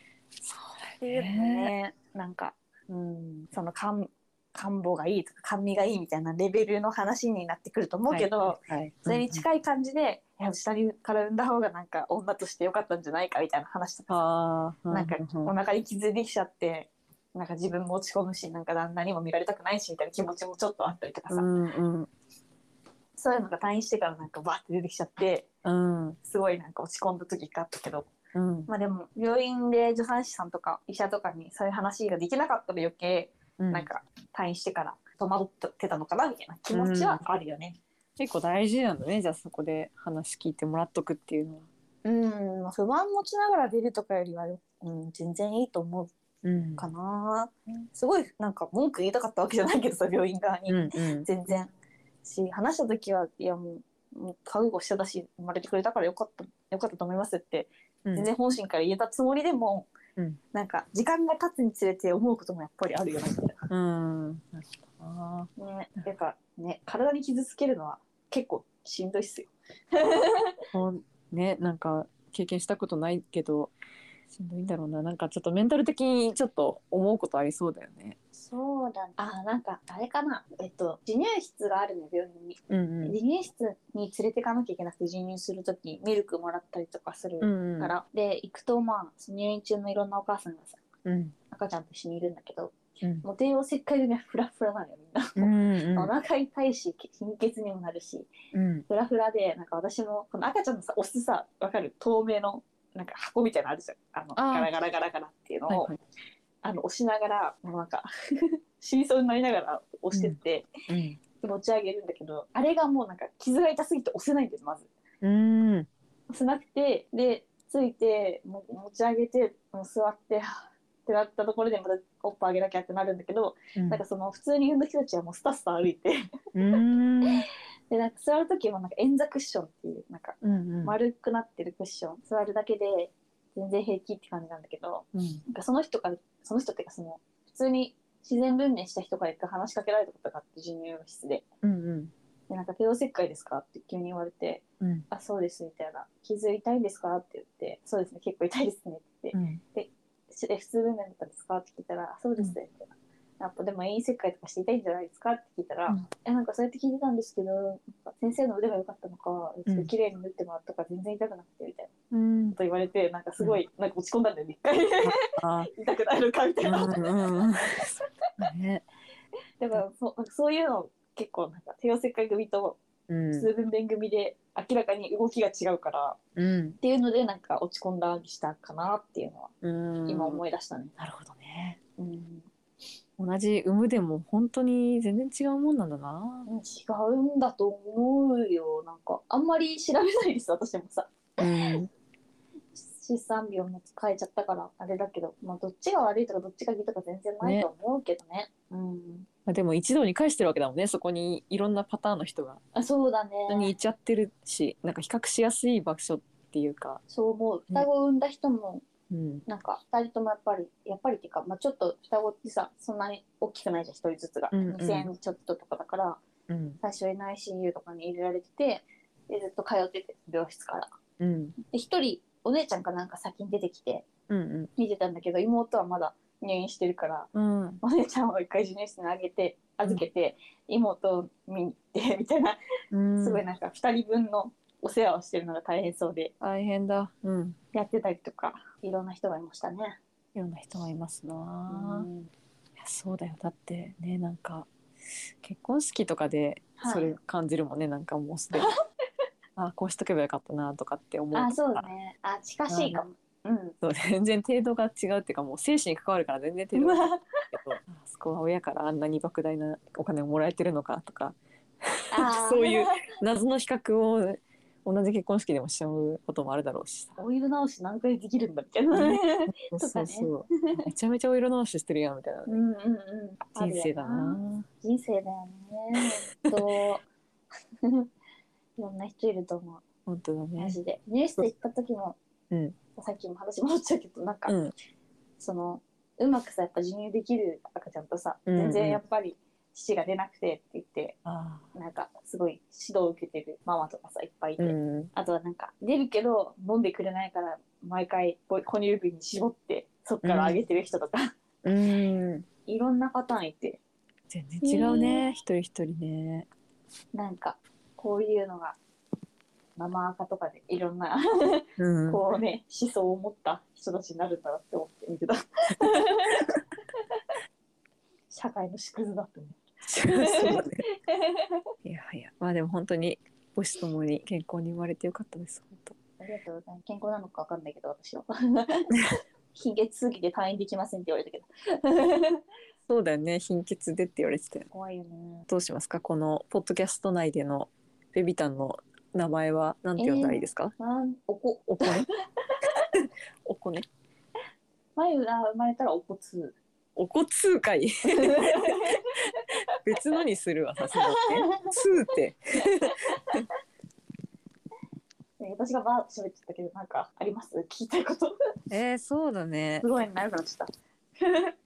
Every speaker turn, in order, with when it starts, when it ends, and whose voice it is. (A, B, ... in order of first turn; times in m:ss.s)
0:00.4-0:01.7 A
0:01.0-0:14.2 B
0:08.1-0:09.4 A
0:14.1-0:15.5 A
0:14.9-0:21.5 B
0:21.3-0:22.1 A
0:23.2-0:25.5 B
0:25.6-0:26.2 A
0:26.2-0:28.1 B
0:28.3-0:28.7 A
0:28.7-0:37.8 B
0:33.6-0:33.9 A
0:36.7-0:37.2 A
0:38.2-0:41.7 A
0:42.0-0:46.1 B
0:46.4-0:46.9 A
0:46.8-0:51.7 B
0:50.7-0:51.3 A
0:52.2-0:59.9 B
1:00.5-1:03.7 B
1:03.7-1:05.5 A
1:05.6-1:10.6 B
1:10.7-1:13.7 A
1:14.3-1:18.2 A
1:18.4-1:30.8 B
1:22.7-1:23.1 A
1:27.4-1:27.9 A
1:31.0-1:31.4 A
1:31.5-1:38.3 B
1:35.4-1:36.1 A
1:38.5-1:38.8 A
1:38.9-1:45.9 B
1:44.4-1:44.7 A
1:45.7-1:46.0 A
1:46.6-1:50.7 B
1:50.9-1:51.2 A
1:51.4-1:54.9 B
1:55.2-1:55.9 A
1:56.3-2:06.2 B
2:03.8-2:04.0 A
2:06.6-2:07.4 A
2:07.2-2:21.4 B
2:10.4-2:10.9 A
2:15.1-2:15.4 A
2:21.6-2:22.1 A
2:22.5-2:41.9 B
2:24.8-2:25.1 A
2:29.3-2:29.6 A
2:42.1-2:42.6 A
2:42.5-2:47.1 B
2:45.0-2:45.7 A
2:46.6-2:48.8 A
2:49.6-2:52.8 B
2:53.1-2:53.5 A
2:53.4-2:56.2 B
2:56.4-2:56.8 A
2:56.8-2:59.5 B
2:59.6-3:00.4 A
3:00.1-3:00.9 B
3:01.0-3:01.8 A
3:02.0-3:02.5 B
3:03.2-3:06.5 A
3:06.4-3:11.8 B
3:11.4-3:11.9 A
3:12.7-3:19.3 B
3:17.4-3:17.7 A
3:19.5-3:22.6 A
3:22.7-3:23.7 B
3:23.5-3:27.0 A
3:27.1-3:28.8 B
3:29.1-3:29.4 A
3:29.4-3:36.2 B
3:34.5-3:35.1 A
3:36.5-3:36.8 A
3:36.8-3:40.9 B
3:41.2-3:41.6 A
3:41.6-3:44.1 B
3:44.3-3:44.7 A
3:44.8-3:47.3 B
3:47.3-3:47.8 A
3:47.8-3:52.6 B
3:52.9-3:53.4 A
3:53.2-3:56.3 B
3:56.4-3:57.6 A
3:57.7-4:00.0 B
4:00.3-4:02.1 A
4:01.7-4:02.3 B
4:02.8-4:04.7 A
4:05.4-4:08.7 A
4:06.8-4:07.1 B
4:09.6-4:11.9 A
4:11.3-4:13.7 B
4:12.7-4:13.0 A
4:13.8-4:27.2 A
4:16.7-4:17.8 B
4:22.1-4:23.1 B
4:27.2-4:30.8 B
4:28.9-4:32.5 A
4:32.5-4:37.1 B
4:33.6-4:34.6 A
4:36.0-4:36.6 A
4:38.8-4:39.8 B
4:40.1-4:40.8 A
4:40.6-4:42.2 B
4:42.5-4:42.8 A
4:43.0-4:44.6 B
4:44.4-4:44.7 A
4:45.4-4:51.2 B
4:48.5-4:49.0 A
4:51.2-4:51.7 A
4:51.7-5:01.3 B
4:54.6-4:55.1 A
5:00.2-5:00.6 A
5:01.6-5:02.4 A
5:02.6-5:03.8 B
5:04.3-5:06.5 A
5:04.6-5:05.3 B
5:07.1-5:08.8 B
5:09.8-5:16.6 B
5:11.8-5:12.2 A
5:15.9-5:16.4 A
5:18.3-5:21.6 B
5:19.9-5:20.8 A
5:21.8-5:26.0 A
5:26.2-5:29.0 B
5:29.5-5:32.4 B
5:32.9-5:34.6 A
5:34.7-5:35.5 B
5:35.5-5:40.7 A
5:40.0-5:42.9 B
5:41.7-5:42.1 A
5:42.9-5:43.9 A
5:45.0-5:46.6 B
5:47.0-5:53.4 A
5:48.0-5:49.8 B
5:50.9-5:51.7 B
5:52.6-5:53.4 B
5:55.4-5:58.3 B
5:58.7-5:59.9 A
5:59.8-6:00.7 B
6:01.2-6:01.5 B